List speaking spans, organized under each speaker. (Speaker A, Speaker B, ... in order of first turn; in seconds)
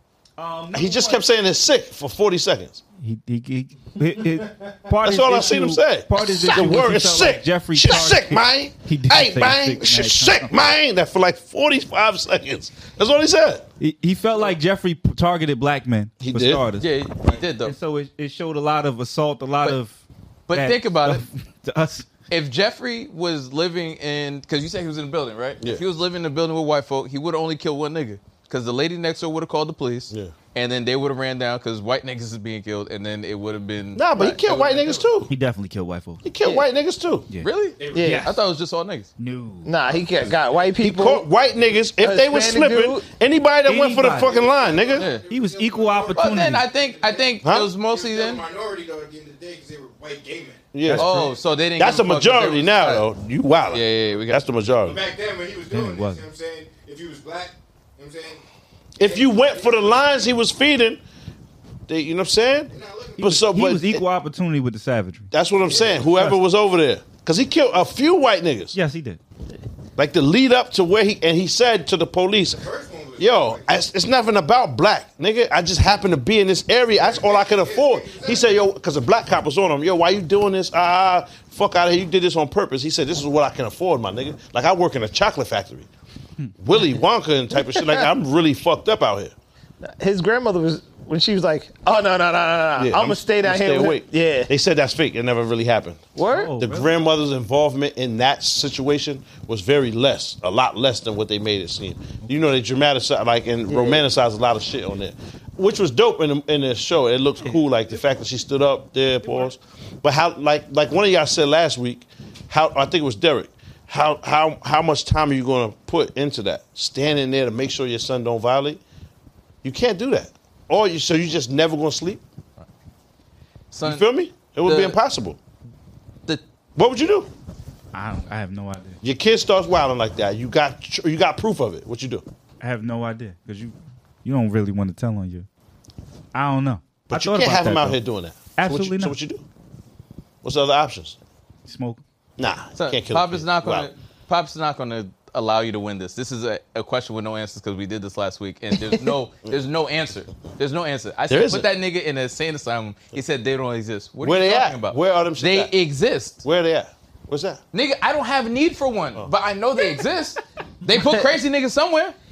Speaker A: 0.4-1.2, 3.0-10.5, 13.8-16.9, 17.6-20.0, 20.5-22.1, 35.3-36.2, 37.3-38.4, 39.2-39.8, 43.6-44.4, 45.3-46.7, 50.8-51.3, 55.7-56.2, 63.2-65.3, 66.1-66.4, 68.7-69.2, 96.3-96.9, 109.2-109.5, 127.9-129.0, 132.6-135.5, 136.3-138.0, 138.5-139.2, 141.7-142.0
Speaker B: 0.7-2.8, 5.0-13.7, 16.2-16.6, 33.9-35.3, 36.2-37.2, 40.8-45.1, 47.4-47.7, 50.7-55.0, 59.0-61.0, 61.9-64.0, 65.3-68.7, 70.0-72.6, 73.2-85.9, 86.6-89.3, 92.8-96.1, 96.6-118.8, 119.6-122.2, 123.8-125.4, 126.8-127.3, 129.0-132.2, 137.1-139.4, 140.4-141.2, 142.4-143.9, 151.3-151.7, 154.2-155.7, 156.4-157.6
Speaker C: 16.8-17.7, 20.5-21.2, 22.3-35.1, 37.4-39.1, 45.0-45.2, 46.1-48.4, 51.0-53.0, 53.7-54.4, 123.7-125.0, 142.8-156.4, 157.7-162.2
Speaker D: 37.8-38.2, 39.9-40.6, 44.1-50.7, 54.8-58.4, 59.0-60.3, 62.7-63.4, 65.7-66.1, 72.5-73.7, 77.0-78.5
Speaker E: 37.9-38.3, 39.6-41.2, 42.0-43.0, 87.6-88.0, 89.8-94.5, 96.2-96.5, 103.7-104.0, 160.9-161.2